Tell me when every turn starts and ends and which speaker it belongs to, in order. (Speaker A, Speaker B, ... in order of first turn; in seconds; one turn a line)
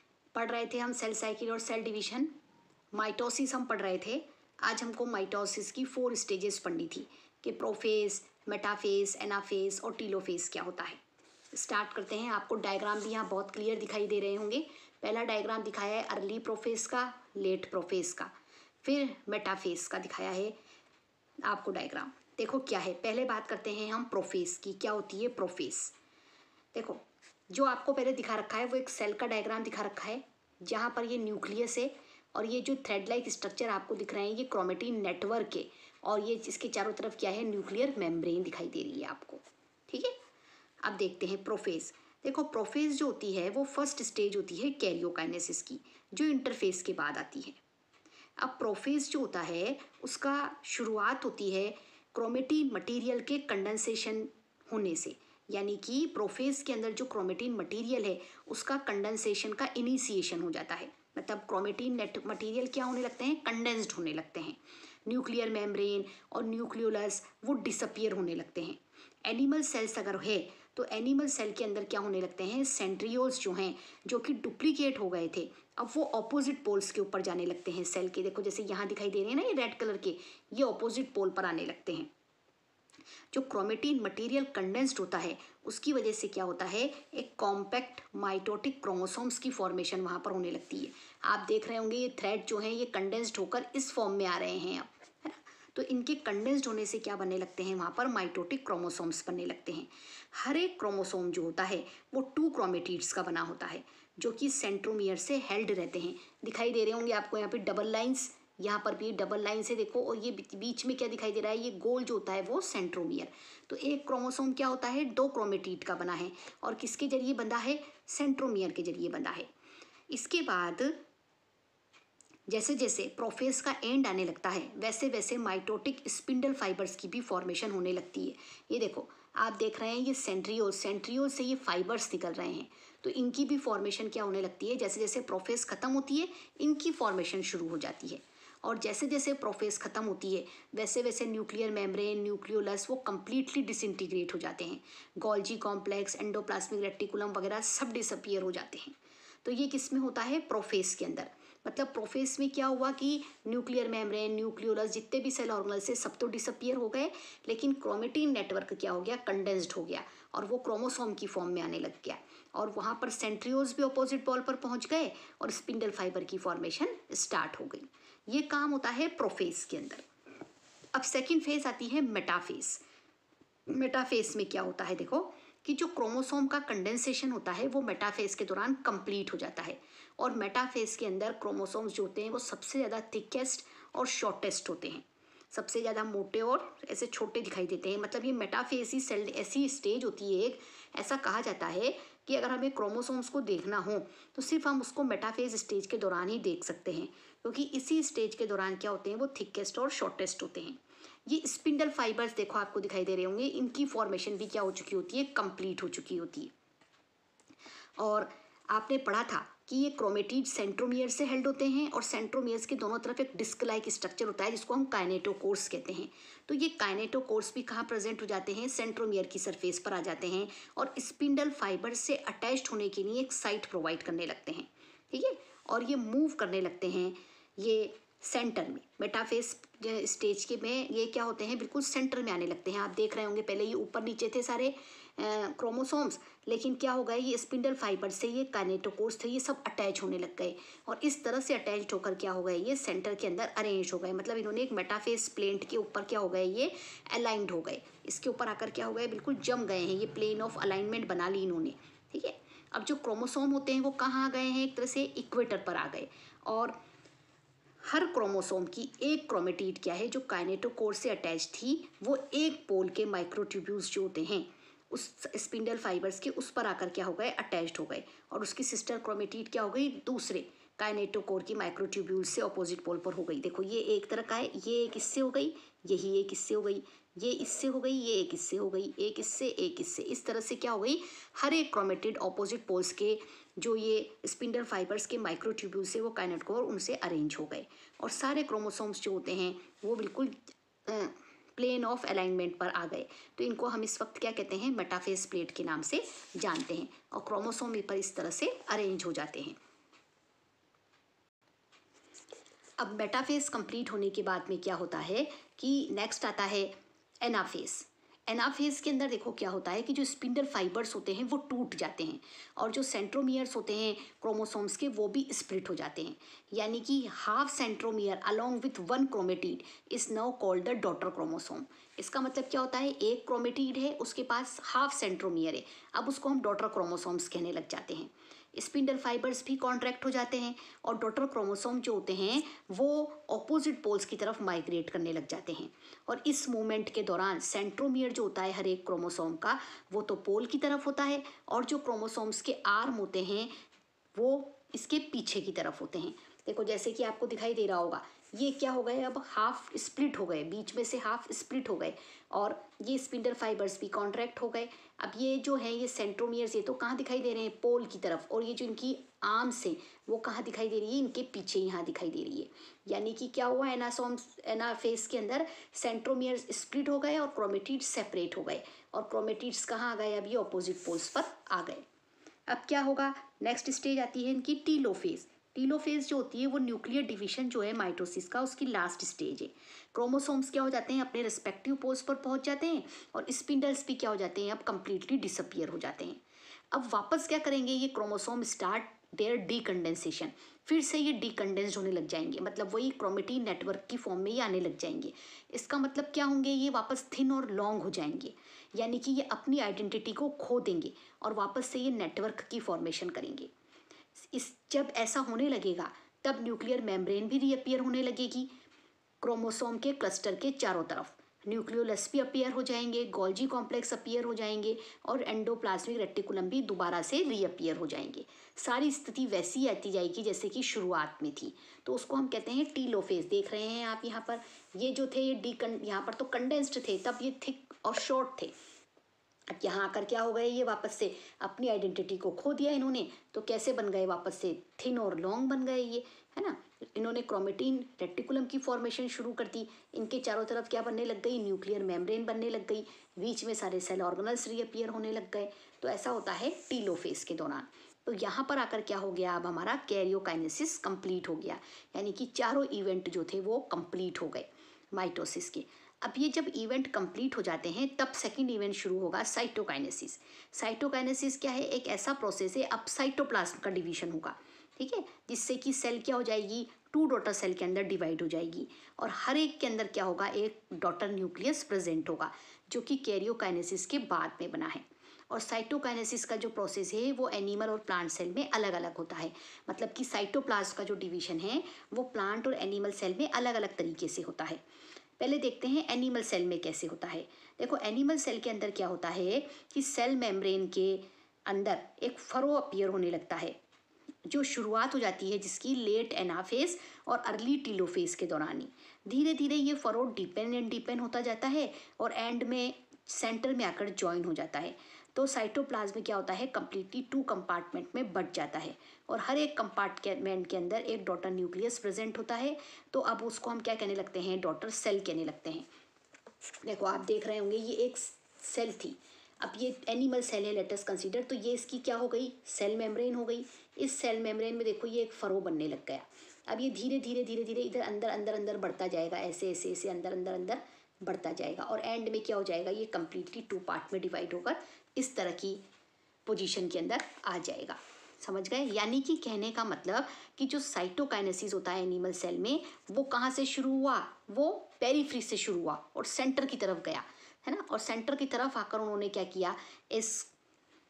Speaker A: 0.3-2.3
Speaker A: 2.9-11.0
Speaker A: 11.5-18.3
Speaker A: 18.8-20.6
Speaker A: 21.4-25.9
Speaker A: 26.7-40.2
Speaker A: 40.8-47.6
Speaker A: 48.4-82.1
Speaker A: 83.3-119.5
Speaker A: 120.1-121.0
Speaker A: 122.5-170.1
Speaker A: 170.9-172.8
Speaker A: 173.7-206.5
Speaker A: 208.0-256.8
Speaker A: 257.8-299.6
Speaker A: 302.8-343.5
Speaker A: 344.1-371.8
Speaker A: 372.5-386.2
Speaker A: 386.7-403.5
Speaker A: 404.2-408.5
Speaker A: 409.2-428.5
Speaker A: 429.5-484.6
Speaker A: 485.2-493.6
Speaker A: 494.3-515.7
Speaker A: 516.6-535.6
Speaker A: 536.3-550.3